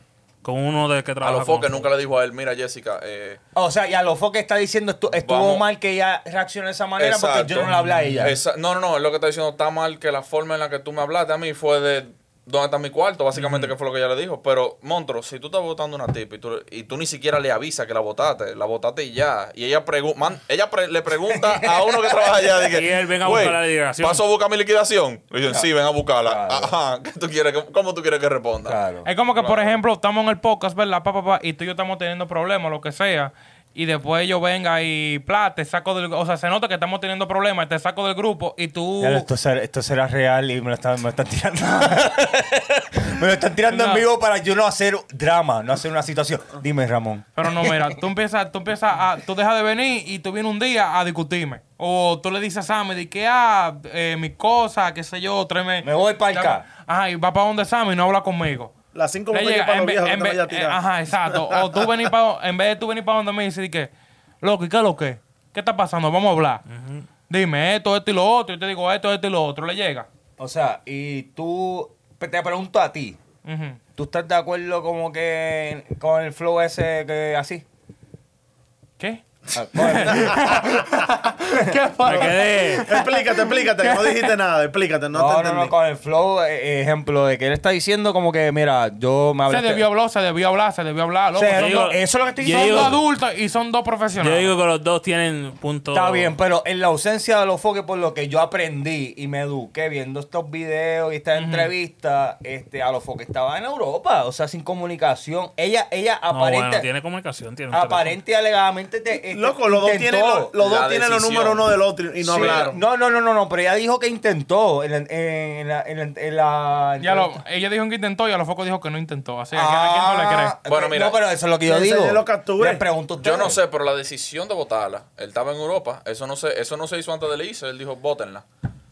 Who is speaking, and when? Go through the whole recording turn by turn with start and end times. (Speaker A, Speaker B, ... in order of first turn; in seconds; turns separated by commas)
Speaker A: 0.4-1.9, Speaker B: 1.2-3.4, Speaker C: 3.5-8.4, Speaker B: 5.2-5.7, Speaker B: 7.0-28.8, Speaker A: 13.4-13.7, Speaker C: 21.3-22.7, Speaker A: 22.7-24.2, Speaker C: 26.2-26.7, Speaker C: 28.6-29.1, Speaker D: 29.1-39.3, Speaker B: 29.4-29.8, Speaker C: 39.0-48.0, Speaker D: 43.7-44.1, Speaker D: 47.4-58.7, Speaker C: 55.8-56.6, Speaker E: 58.9-62.0, Speaker D: 59.3-66.6, Speaker A: 66.7-67.1, Speaker D: 67.3-70.1, Speaker C: 70.4-73.2, Speaker D: 73.5-73.8, Speaker C: 74.0-77.6, Speaker D: 79.0-84.3, Speaker C: 79.5-80.6, Speaker E: 80.3-80.8, Speaker A: 82.0-82.9, Speaker E: 82.8-85.7, Speaker C: 85.1-89.8, Speaker D: 89.5-92.0, Speaker C: 91.3-93.0, Speaker A: 91.5-93.0, Speaker D: 92.5-94.5, Speaker A: 94.2-96.3, Speaker C: 95.9-106.9, Speaker D: 101.4-101.7, Speaker A: 106.3-108.2, Speaker C: 107.7-110.5, Speaker E: 109.3-112.8, Speaker B: 110.6-111.7, Speaker C: 112.2-117.4, Speaker B: 112.2-112.7, Speaker D: 117.0-120.5, Speaker C: 119.5-123.6, Speaker B: 120.7-121.2, Speaker E: 121.7-122.8, Speaker B: 123.2-128.4